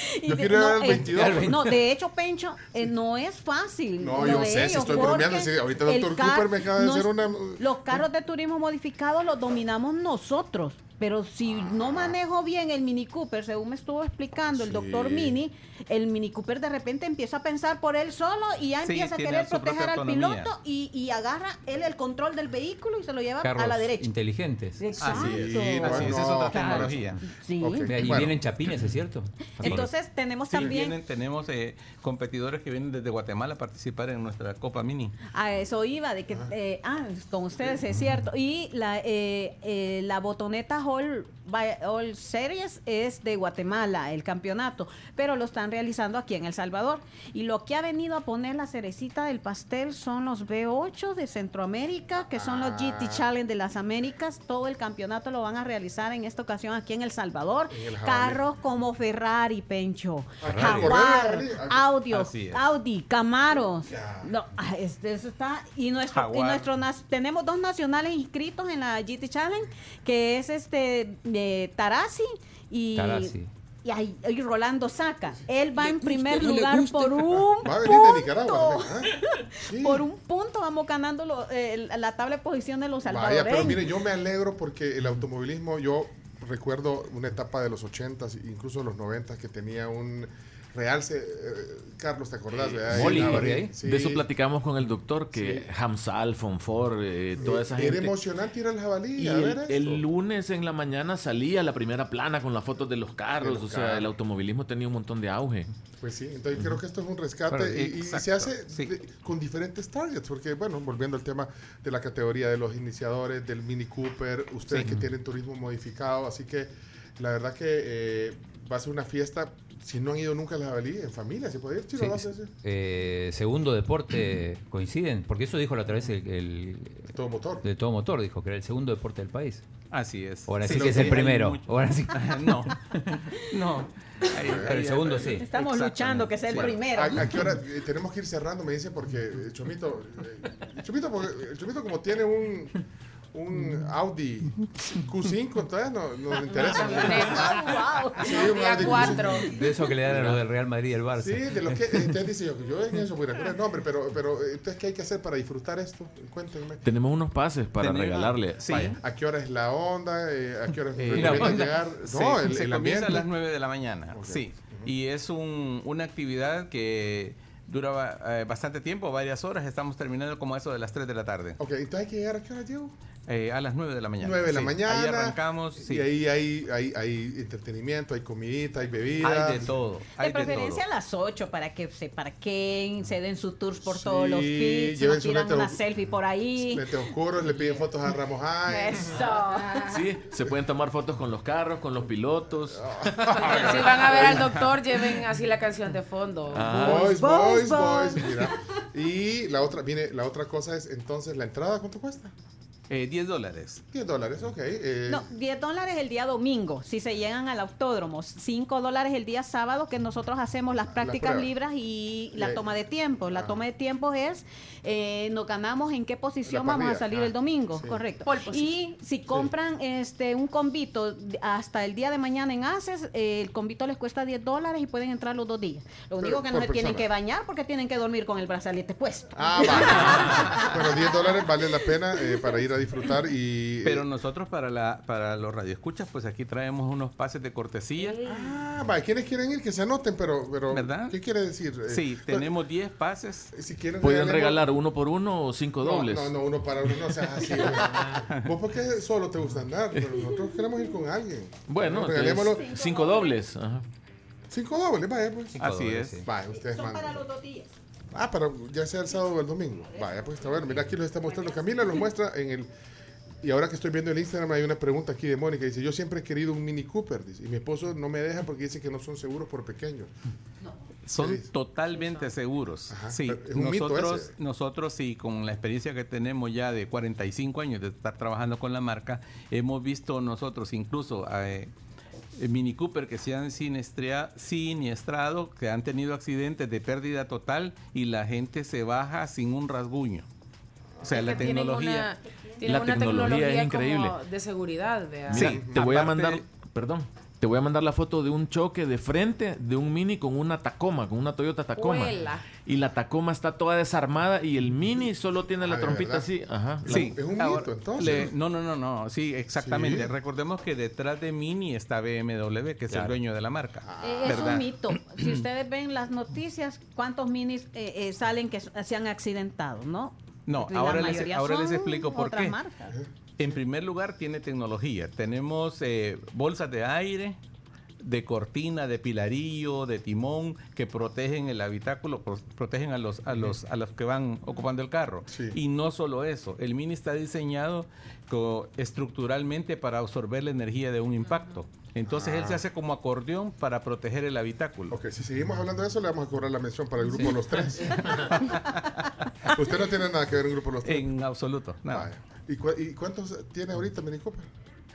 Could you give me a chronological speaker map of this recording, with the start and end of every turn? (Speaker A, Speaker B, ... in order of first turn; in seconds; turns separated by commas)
Speaker A: 0.2-24.1, Speaker B: 0.3-1.5, Speaker C: 1.1-1.8, Speaker B: 4.0-8.0, Speaker B: 11.5-12.1, Speaker B: 14.5-15.3, Speaker D: 18.8-20.5, Speaker C: 23.4-24.8, Speaker A: 24.8-25.9, Speaker D: 25.0-27.2, Speaker B: 25.1-28.4, Speaker C: 26.5-26.9, Speaker A: 27.4-27.9, Speaker C: 27.9-29.9, Speaker A: 29.6-31.0, Speaker D: 30.5-35.1, Speaker A: 35.3-73.3, Speaker B: 52.3-53.2, Speaker B: 57.7-58.4, Speaker B: 60.4-61.9, Speaker C: 60.5-60.9, Speaker D: 62.1-62.6, Speaker B: 63.9-64.3, Speaker D: 66.1-66.7, Speaker C: 73.0-73.5, Speaker A: 73.8-78.9, Speaker D: 75.8-76.6, Speaker B: 77.1-79.1, Speaker B: 79.7-80.0, Speaker A: 79.7-83.8, Speaker B: 83.1-94.2, Speaker C: 92.9-93.7, Speaker E: 93.1-98.1, Speaker B: 95.3-95.6, Speaker B: 97.4-100.0, Speaker E: 99.2-105.7, Speaker B: 103.4-104.1, Speaker B: 106.0-122.5, Speaker D: 107.6-108.9, Speaker C: 122.0-127.1, Speaker B: 127.1-127.6, Speaker C: 127.6-129.6, Speaker D: 129.9-132.7, Speaker C: 130.5-132.2, Speaker B: 130.6-131.3, Speaker D: 133.5-137.3, Speaker B: 134.4-134.8, Speaker C: 134.6-135.5, Speaker A: 135.4-137.2, Speaker B: 136.6-142.7, Speaker B: 143.3-149.5, Speaker F: 146.7-149.6, Speaker C: 148.8-151.9, Speaker B: 150.1-150.4, Speaker B: 151.2-156.8, Speaker E: 156.8-158.6, Speaker D: 157.8-159.0, Speaker B: 158.7-163.3, Speaker D: 160.9-171.6, Speaker C: 161.2-161.6, Speaker B: 164.1-164.9, Speaker B: 171.6-172.9, Speaker D: 173.3-176.1, Speaker B: 174.2-179.7, Speaker D: 179.2-180.8, Speaker A: 180.2-186.8, Speaker B: 183.8-185.8, Speaker B: 186.6-189.2, Speaker A: 188.7-189.8, Speaker F: 189.1-190.0, Speaker E: 189.9-192.8, Speaker B: 192.8-194.6, Speaker F: 193.3-197.1, Speaker E: 196.5-197.2, Speaker B: 196.8-202.3, Speaker A: 197.1-198.2, Speaker D: 202.9-203.8, Speaker B: 203.9-205.2, Speaker A: 205.1-231.4, Speaker B: 210.9-211.5, Speaker B: 212.3-212.6, Speaker B: 213.3-213.6, Speaker B: 216.4-218.0, Speaker F: 218.2-218.7, Speaker B: 226.2-227.1, Speaker B: 229.3-234.1, Speaker D: 233.8-238.2, Speaker B: 238.2-242.5, Speaker D: 240.7-241.1, Speaker D: 241.9-243.5, Speaker B: 243.5-244.6, Speaker E: 244.0-246.3, Speaker B: 245.8-252.7, Speaker D: 247.4-248.5, Speaker E: 251.7-253.8, Speaker A: 252.5-253.3, Speaker B: 254.5-255.6, Speaker D: 255.6-256.2, Speaker C: 255.6-256.3, Speaker B: 256.2-257.2, Speaker A: 256.5-257.7, Speaker B: 258.1-262.7, Speaker A: 259.9-262.0, Speaker B: 263.4-270.1, Speaker D: 271.1-281.7, Speaker B: 271.2-271.4, Speaker F: 271.9-272.3, Speaker B: 272.9-274.3, Speaker D: 282.4-290.3, Speaker B: 291.0-291.4, Speaker D: 291.1-292.1, Speaker F: 291.1-295.6, Speaker E: 292.6-294.1, Speaker E: 295.3-307.0, Speaker D: 295.3-296.4, Speaker B: 295.4-295.8, Speaker F: 301.7-302.4, Speaker B: 305.6-306.3, Speaker B: 306.9-308.3, Speaker D: 306.9-314.7, Speaker B: 309.6-310.1, Speaker B: 313.9-314.4, Speaker A: 314.0-322.7, Speaker D: 320.4-322.6, Speaker D: 323.4-327.4, Speaker D: 328.0-344.9, Speaker B: 335.3-335.6, Speaker B: 342.1-342.6, Speaker B: 344.9-348.5, Speaker D: 347.1-348.8, Speaker B: 349.5-351.1, Speaker D: 350.8-352.1, Speaker B: 351.9-354.5